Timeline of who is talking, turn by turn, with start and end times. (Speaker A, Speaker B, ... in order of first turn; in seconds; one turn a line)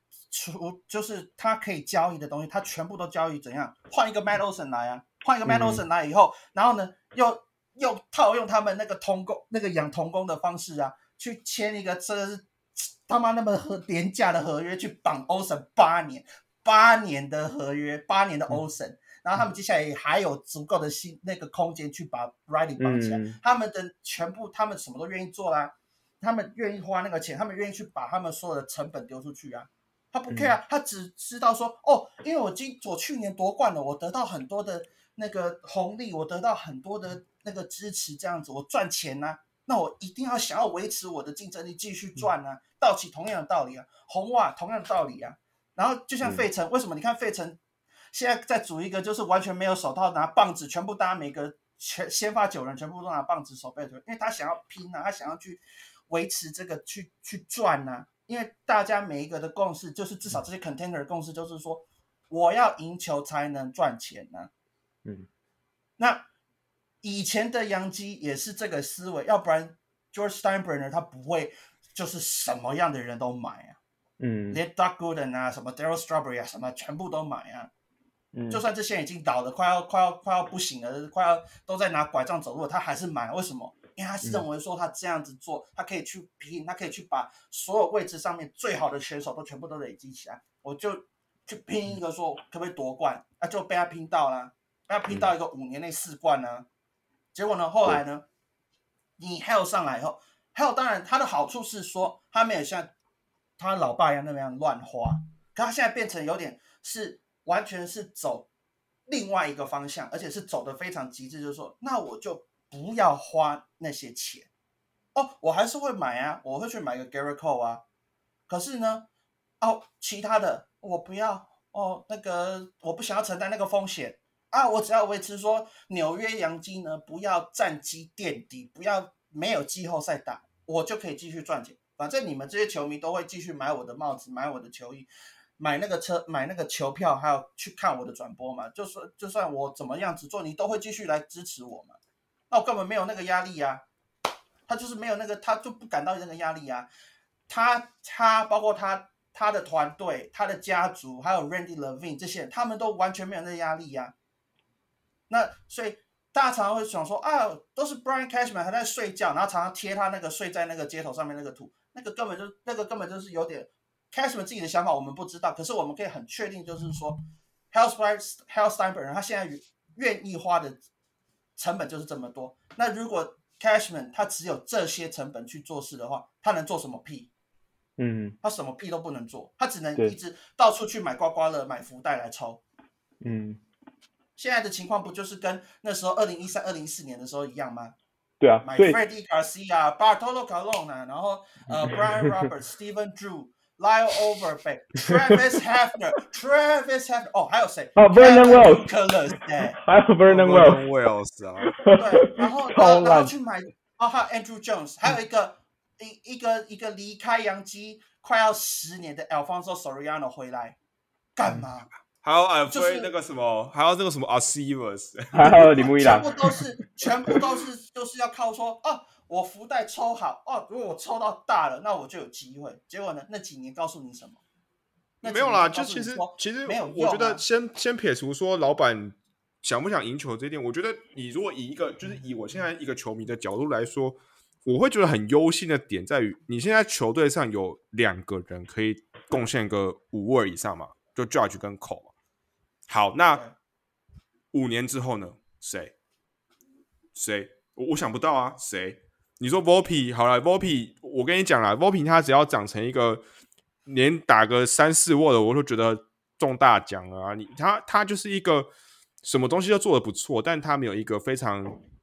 Speaker A: 0.3-47.6
Speaker B: 5.5-5.8
Speaker B: 22.8-23.4
Speaker A: 48.1-64.5
Speaker A: 66.0-66.2
Speaker A: 67.0-73.8
Speaker B: 74.2-74.6
Speaker A: 74.5-77.7
Speaker B: 78.3-78.6
Speaker A: 78.5-96.7
Speaker A: 97.3-98.2
Speaker A: 99.2-102.9
Speaker A: 103.6-108.5
Speaker A: 109.1-114.5
Speaker A: 115.1-117.8
Speaker A: 118.5-119.1
Speaker A: 119.6-142.0
Speaker A: 142.5-143.8
Speaker A: 144.7-146.9
Speaker A: 147.5-154.1
Speaker A: 155.3-170.8
Speaker A: 171.6-177.3
Speaker B: 178.0-178.4
Speaker A: 178.4-182.6
Speaker B: 183.2-183.6
Speaker A: 184.3-187.9
Speaker B: 188.4-189.0
Speaker A: 188.6-199.8
Speaker B: 191.7-192.4
Speaker B: 195.0-195.4
Speaker B: 197.9-198.9
Speaker B: 199.6-200.8
Speaker C: 200.3-201.8
Speaker B: 201.7-203.3
Speaker A: 202.0-210.8
Speaker A: 211.3-211.9
Speaker C: 212.2-215.9
Speaker A: 212.7-213.1
Speaker B: 215.3-216.3
Speaker A: 216.0-224.4
Speaker A: 225.2-227.4
Speaker C: 225.2-242.1
Speaker C: 242.9-243.4
Speaker A: 243.3-243.5
Speaker C: 244.5-245.9
Speaker C: 247.1-253.2
Speaker C: 253.8-258.7
Speaker C: 259.2-261.8